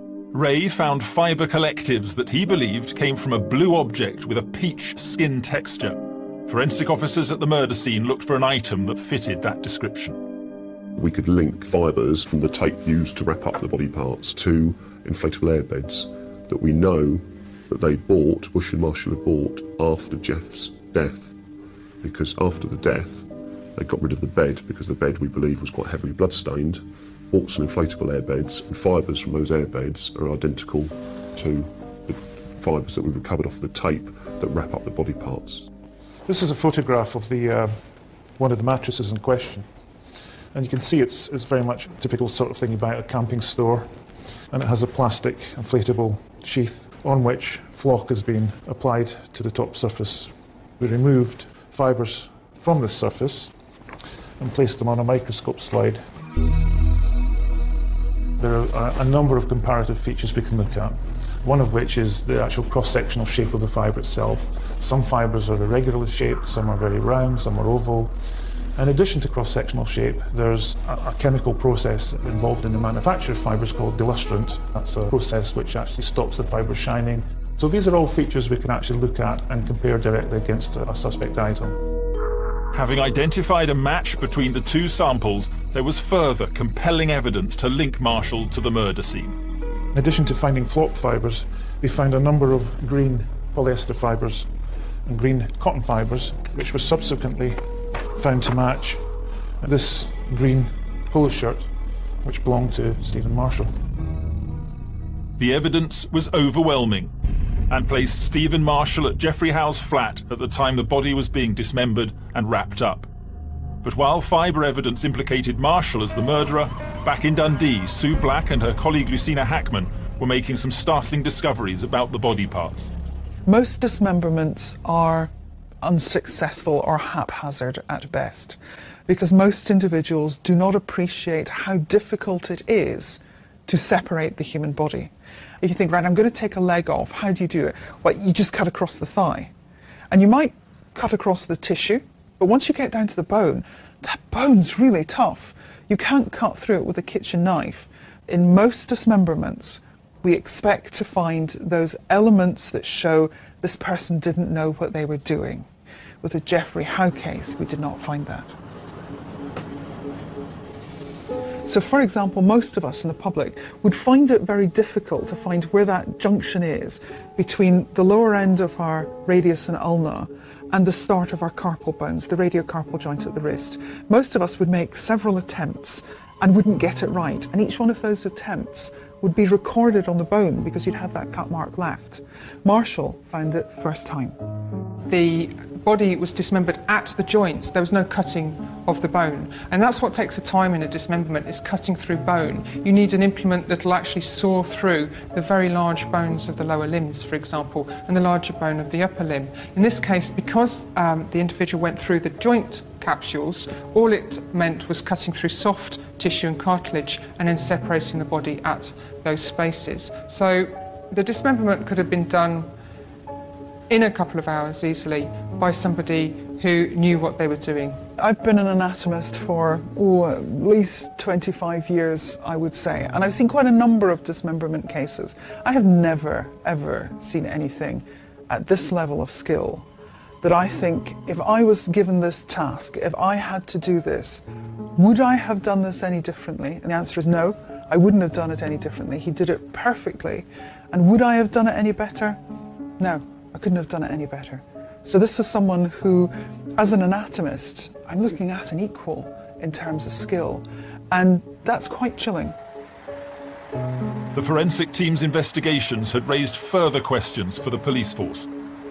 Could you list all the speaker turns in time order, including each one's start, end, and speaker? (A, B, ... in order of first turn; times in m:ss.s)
0:00.3-0:10.2 A
0:11.0-0:21.4 B
0:22.0-0:35.7 B
0:36.3-0:39.7 C
0:40.5-0:44.0 C
0:44.5-0:53.5 C
0:54.4-0:56.0 C
0:58.4-1:08.2 C
1:08.8-1:21.8 C
1:22.7-1:29.4 A
1:29.9-1:34.5 C
1:35.0-1:39.0 C
1:39.6-1:41.7 C
1:42.2-1:43.7 C
1:45.4-1:47.1 A
1:47.7-1:53.1 A
1:53.8-2:02.9 A
2:03.4-2:05.3 D
2:05.8-2:19.5 D
2:20.1-2:35.7 D
2:36.2-2:38.6 D
2:41.6-3:04.4 D
3:05.1-3:32.7 E
3:33.9-3:38.0 E
3:38.2-3:49.8 D
3:50.4-3:54.4 D
3:55.0-4:02.4 D
4:03.0-4:12.6 D
4:14.3-4:18.5 A